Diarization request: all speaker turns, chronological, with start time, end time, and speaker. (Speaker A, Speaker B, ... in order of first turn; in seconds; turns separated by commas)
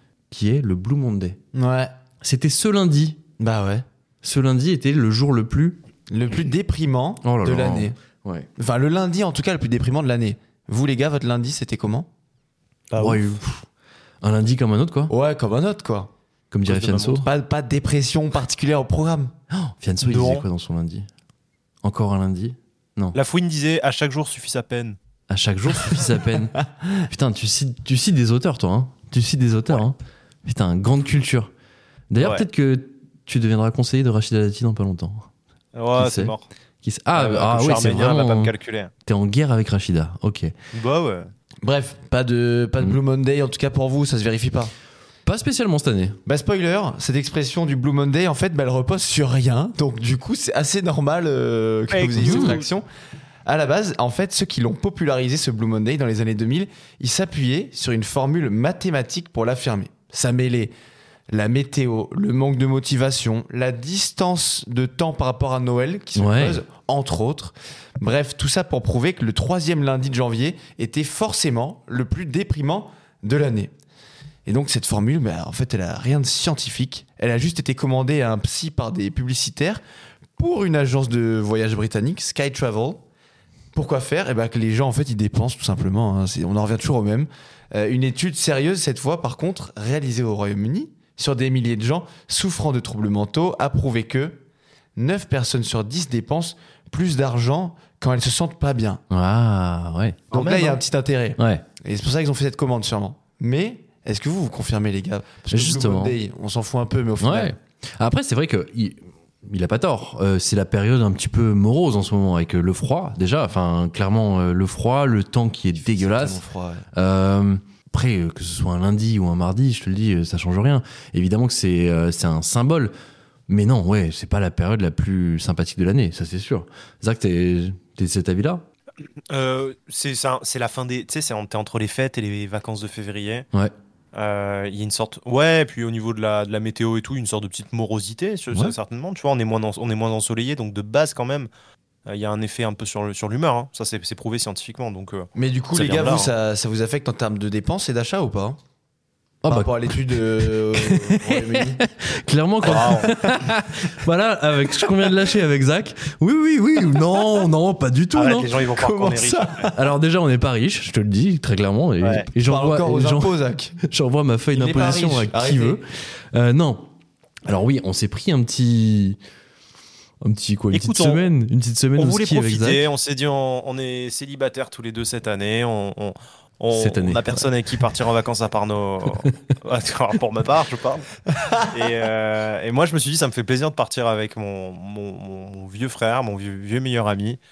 Speaker A: 0.3-1.4, Speaker B: 1.5-1.9, Speaker A: 2.2-3.2, Speaker B: 3.4-3.8, Speaker A: 4.2-5.8, Speaker B: 6.1-8.0, Speaker A: 7.2-8.5, Speaker B: 8.6-12.1, Speaker C: 12.9-13.2, Speaker A: 13.0-13.7, Speaker A: 14.2-15.1, Speaker B: 15.1-16.1, Speaker A: 16.5-17.3, Speaker C: 16.7-17.3, Speaker B: 17.2-19.3, Speaker A: 19.5-21.1, Speaker C: 20.0-20.4, Speaker A: 21.8-23.2, Speaker C: 23.1-25.0, Speaker A: 25.3-31.5, Speaker A: 32.1-35.3, Speaker C: 32.2-32.5, Speaker C: 35.8-36.5, Speaker A: 36.0-38.5, Speaker C: 37.1-38.9, Speaker A: 39.0-40.5, Speaker C: 40.7-41.3, Speaker B: 41.6-44.7, Speaker A: 45.3-46.2, Speaker B: 46.3-52.9, Speaker C: 51.9-52.7, Speaker A: 52.2-52.6, Speaker B: 53.5-60.7, Speaker B: 61.3-73.7, Speaker A: 66.2-66.6, Speaker B: 74.5-79.8, Speaker B: 80.4-83.0, Speaker B: 83.8-94.4, Speaker B: 95.0-99.0, Speaker A: 99.1-100.2, Speaker C: 100.3-100.8, Speaker B: 100.3-107.5, Speaker A: 101.4-101.6, Speaker A: 105.5-106.2, Speaker A: 107.2-116.4, Speaker B: 115.8-116.9, Speaker A: 116.9-122.9, Speaker A: 123.5-128.6, Speaker C: 129.3-133.4, Speaker C: 134.1-141.5, Speaker C: 142.1-146.3, Speaker B: 145.3-148.6, Speaker A: 149.4-158.6, Speaker B: 149.5-151.8, Speaker C: 152.6-153.3, Speaker C: 158.1-159.7, Speaker B: 158.7-159.8, Speaker A: 159.7-166.9, Speaker C: 162.0-162.3, Speaker B: 162.4-163.8, Speaker B: 164.5-165.8, Speaker A: 167.4-169.2, Speaker A: 170.2-172.8, Speaker C: 170.7-171.3, Speaker C: 172.0-181.1, Speaker A: 176.7-177.5, Speaker C: 181.7-187.4